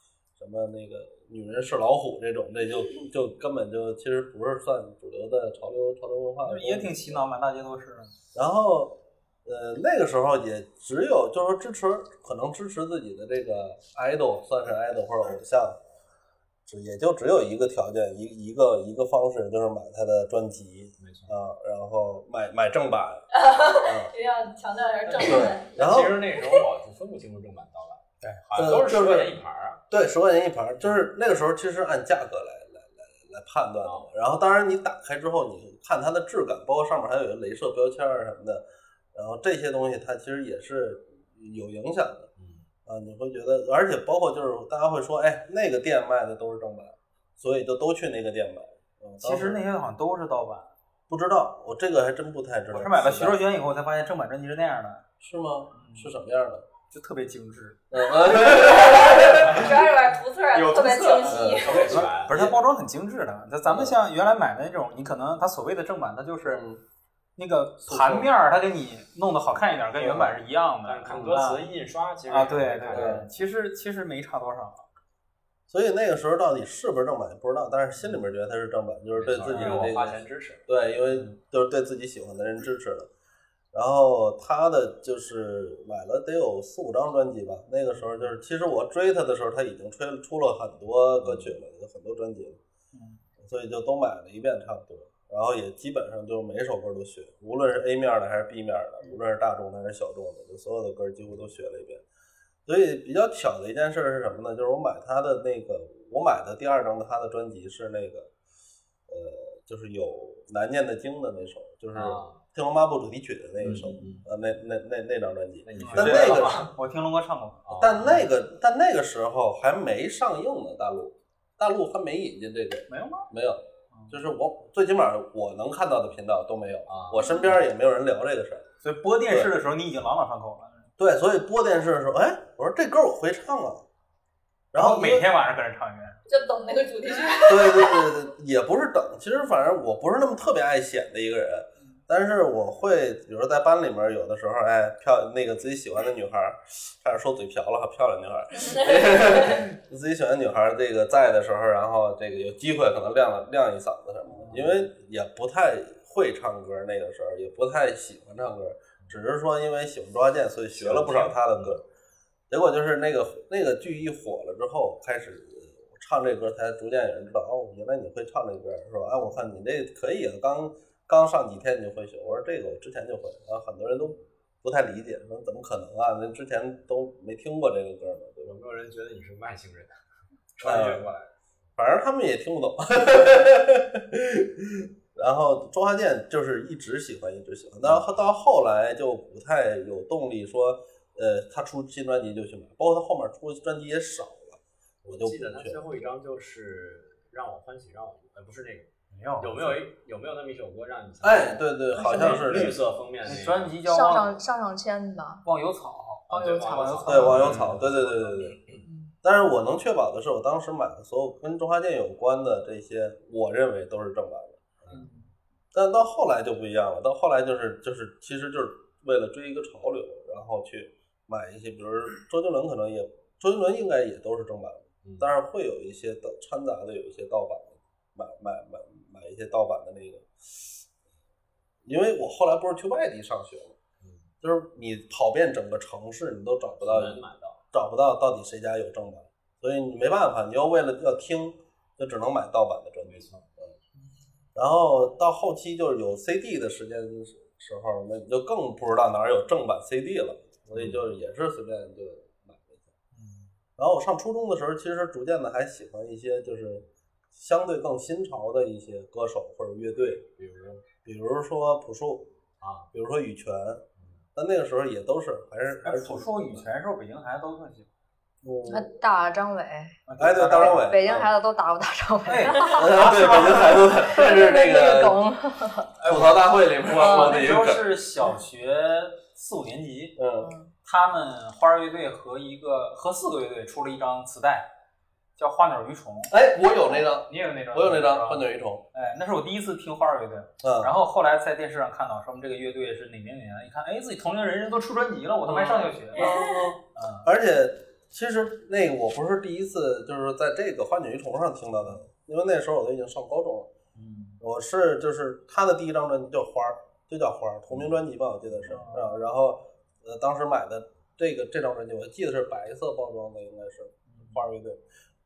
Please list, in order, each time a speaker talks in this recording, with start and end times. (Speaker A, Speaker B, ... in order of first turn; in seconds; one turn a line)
Speaker A: 0.4-7.2
Speaker B: 6.4-8.1
Speaker A: 8.3-15.8
Speaker A: 16.7-23.3
Speaker C: 21.0-21.3
Speaker D: 23.3-25.7
Speaker A: 23.8-24.1
Speaker C: 25.1-29.8
Speaker A: 25.2-26.2
Speaker D: 26.3-26.7
Speaker B: 28.2-28.5
Speaker A: 28.6-29.4
Speaker A: 29.9-42.3
Speaker C: 33.8-34.1
Speaker C: 42.4-42.6
Speaker A: 42.9-49.6
Speaker B: 49.2-50.7
Speaker A: 51.1-53.4
Speaker B: 52.7-55.0
Speaker A: 55.2-56.7
Speaker B: 55.7-56.2
Speaker B: 56.9-57.8
Speaker A: 57.9-59.8
Speaker D: 58.3-62.0
Speaker B: 59.1-59.8
Speaker B: 60.5-66.6
Speaker A: 61.3-62.6
Speaker C: 61.5-62.4
Speaker A: 63.6-64.0
Speaker A: 66.4-66.8
Speaker B: 67.4-71.7
Speaker A: 67.8-68.3
Speaker A: 70.0-70.4
Speaker C: 70.8-73.3
Speaker A: 71.1-71.4
Speaker B: 72.3-74.8
Speaker A: 72.9-73.3
Speaker A: 75.7-83.1
Speaker C: 79.2-80.6
Speaker B: 79.5-79.9
Speaker A: 83.7-92.6
Speaker B: 88.0-88.3
Speaker C: 91.2-91.5
Speaker B: 92.9-93.2
Speaker A: 93.4-102.0
Speaker A: 102.7-108.3
Speaker A: 109.1-116.7
Speaker C: 111.9-112.4
Speaker C: 113.6-114.2
Speaker B: 113.6-114.2
Speaker C: 115.6-116.7
Speaker B: 115.8-117.6
Speaker C: 117.7-118.3
Speaker A: 117.8-128.6
Speaker B: 122.9-123.3
Speaker B: 123.9-124.2
Speaker C: 126.9-127.3
Speaker B: 128.8-130.9
Speaker A: 129.3-129.5
Speaker A: 131.0-133.8
Speaker A: 134.7-135.3
Speaker B: 134.7-136.2
Speaker D: 136.3-138.2
Speaker A: 137.4-161.8
Speaker D: 148.6-149.6
Speaker B: 154.3-154.8
Speaker C: 160.7-161.8
Speaker A: 162.5-178.6
Speaker C: 178.4-180.0
Speaker C: 180.5-181.3
Speaker A: 180.6-181.1
Speaker A: 181.8-195.8
Speaker C: 187.8-188.2
Speaker C: 195.0-203.8
Speaker B: 199.1-199.8
Speaker A: 201.2-202.8
Speaker E: 201.9-202.7
Speaker B: 203.2-204.4
Speaker E: 203.8-205.5
Speaker B: 205.4-207.8
Speaker E: 206.3-206.9
Speaker C: 206.3-208.8
Speaker A: 207.1-208.6
Speaker E: 208.8-209.1
Speaker A: 209.2-214.6
Speaker B: 214.9-215.3
Speaker A: 215.7-230.3
Speaker C: 225.0-225.3
Speaker A: 231.8-233.8
Speaker C: 234.0-234.3
Speaker A: 234.4-243.7
Speaker C: 236.8-237.6
Speaker C: 243.0-243.4
Speaker A: 244.5-252.9
Speaker C: 250.7-251.0
Speaker B: 253.1-253.5
Speaker A: 253.8-260.2
Speaker C: 260.4-260.8
Speaker A: 261.0-262.3
Speaker C: 262.6-262.9
Speaker A: 262.9-266.7
Speaker C: 264.0-264.2
Speaker B: 265.8-267.9
Speaker A: 268.4-268.9
Speaker E: 268.7-270.0
Speaker B: 270.1-271.0
Speaker A: 270.2-271.3
Speaker E: 270.6-275.9
Speaker B: 272.2-273.9
Speaker A: 272.7-275.2
Speaker B: 276.0-280.1
Speaker A: 276.0-277.9
Speaker E: 277.0-277.4
Speaker A: 280.2-280.5
Speaker E: 280.4-280.7
Speaker B: 280.8-284.7
Speaker B: 285.4-286.3
Speaker A: 286.3-288.8
Speaker B: 287.2-297.3
Speaker A: 290.6-290.9
Speaker A: 295.4-303.7
Speaker B: 303.9-304.4
Speaker A: 304.4-314.8
Speaker B: 308.7-309.2
Speaker B: 314.1-314.4